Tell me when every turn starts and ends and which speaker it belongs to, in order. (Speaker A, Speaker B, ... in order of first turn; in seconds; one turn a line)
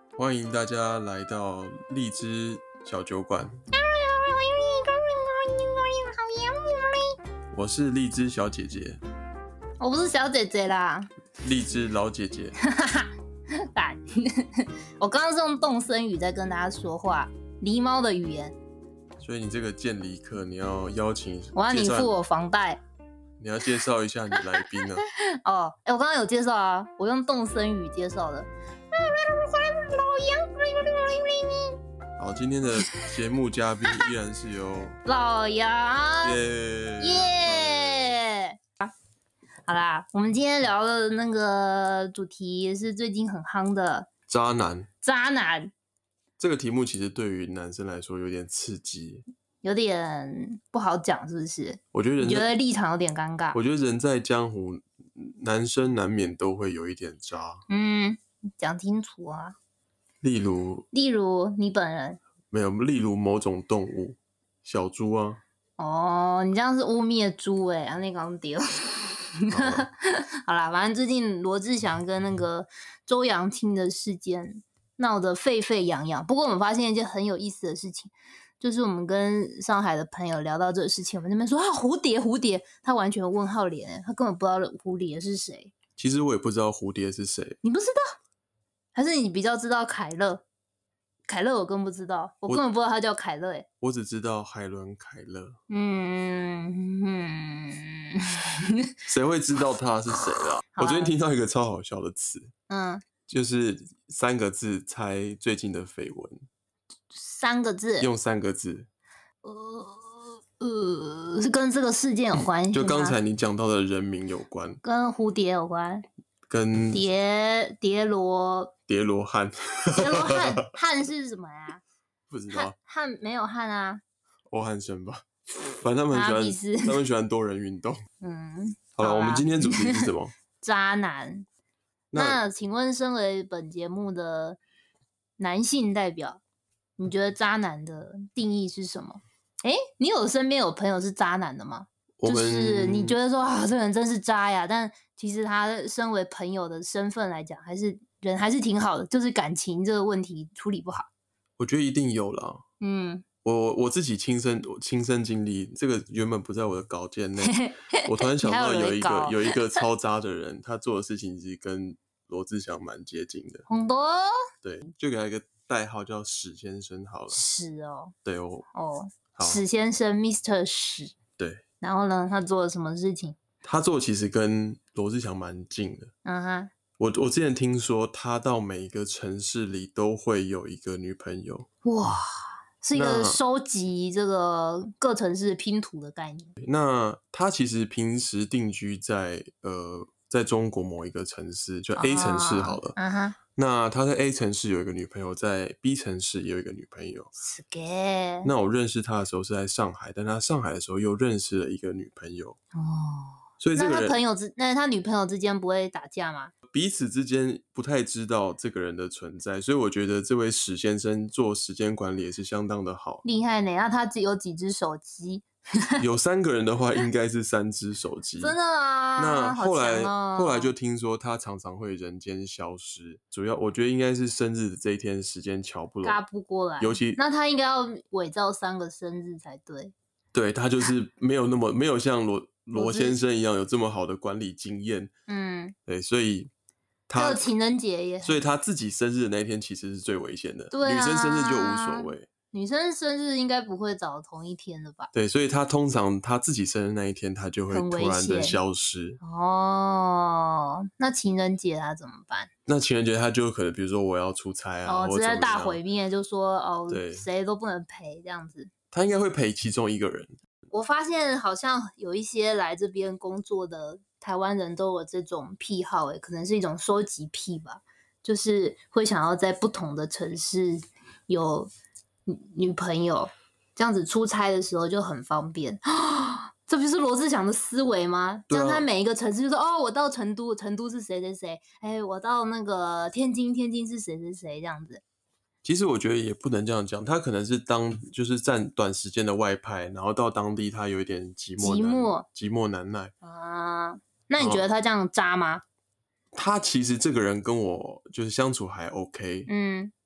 Speaker A: 0.2-3.6
Speaker B: 3.7-7.2
Speaker A: 7.5-9.0
Speaker B: 9.8-11.1
Speaker A: 11.4-12.5
Speaker B: 12.6-18.5
Speaker A: 19.2-22.1
Speaker B: 21.5-22.8
Speaker A: 23.4-25.0
Speaker B: 24.3-31.8
Speaker A: 32.2-35.0
Speaker B: 32.8-33.1
Speaker B: 35.0-36.4
Speaker A: 36.2-38.2
Speaker B: 37.0-38.9
Speaker B: 39.7-44.1
Speaker A: 44.3-44.9
Speaker B: 45.0-45.7
Speaker A: 46.4-49.2
Speaker B: 49.6-53.6
Speaker A: 51.9-52.5
Speaker A: 53.5-57.6
Speaker B: 57.7-59.5
Speaker A: 60.2-60.9
Speaker B: 60.9-62.2
Speaker A: 62.5-65.4
Speaker B: 65.8-85.7
Speaker A: 69.5-69.9
Speaker A: 86.0-87.6
Speaker B: 87.6-88.0
Speaker B: 88.9-90.4
Speaker B: 91.3-93.7
Speaker A: 93.8-95.6
Speaker B: 95.7-98.9
Speaker A: 99.1-102.5
Speaker B: 100.3-101.1
Speaker B: 102.7-103.0
Speaker A: 103.3-106.4
Speaker B: 107.1-108.1
Speaker A: 108.0-108.9
Speaker B: 109.4-113.2
Speaker A: 112.7-114.8
Speaker B: 114.8-116.0
Speaker A: 116.5-117.0
Speaker B: 116.9-118.7
Speaker A: 118.9-120.6
Speaker B: 120.0-121.8
Speaker A: 122.3-122.7
Speaker B: 122.5-124.0
Speaker A: 124.5-125.2
Speaker A: 125.8-128.0
Speaker B: 126.1-127.0
Speaker B: 128.2-130.1
Speaker A: 129.0-130.3
Speaker B: 130.6-131.4
Speaker A: 132.1-132.4
Speaker B: 132.1-134.6
Speaker B: 135.4-136.4
Speaker B: 137.0-151.1
Speaker A: 142.2-143.2
Speaker A: 151.6-152.6
Speaker B: 152.8-153.2
Speaker A: 153.4-163.6
Speaker B: 157.4-159.8
Speaker B: 163.7-164.3
Speaker A: 164.6-167.4
Speaker B: 167.3-168.1
Speaker A: 168.2-168.7
Speaker B: 168.7-171.1
Speaker A: 169.3-169.6
Speaker A: 171.4-171.6
Speaker B: 171.8-173.4
Speaker A: 173.6-176.1
Speaker B: 176.2-176.7
Speaker A: 177.0-181.7
Speaker B: 181.8-182.3
Speaker B: 182.8-186.5
Speaker A: 182.9-183.4
Speaker A: 186.6-193.0
Speaker B: 191.9-193.4
Speaker A: 193.5-197.3
Speaker B: 197.4-198.5
Speaker A: 198.4-202.6
Speaker B: 202.7-206.5
Speaker A: 203.6-204.2
Speaker A: 206.7-213.2
Speaker B: 213.2-216.0
Speaker A: 216.0-218.6
Speaker B: 218.4-220.7
Speaker A: 219.2-226.2
Speaker B: 226.0-229.9
Speaker A: 226.8-227.2
Speaker A: 230.3-235.1
Speaker B: 232.7-233.2
Speaker B: 235.3-235.7
Speaker A: 235.9-236.5
Speaker A: 237.1-237.4
Speaker B: 237.2-238.4
Speaker A: 238.2-242.3
Speaker B: 240.7-245.1
Speaker A: 245.1-249.2
Speaker B: 247.7-248.6
Speaker B: 249.2-252.5
Speaker A: 252.7-255.8
Speaker B: 254.8-258.7
Speaker A: 256.9-257.2
Speaker A: 258.9-260.4
Speaker B: 260.7-271.7
Speaker B: 272.3-285.0
Speaker A: 278.5-278.9
Speaker A: 285.6-293.1
Speaker B: 291.6-292.2
Speaker B: 293.2-295.6
Speaker A: 294.4-294.6
Speaker A: 296.3-299.5
Speaker B: 299.5-299.9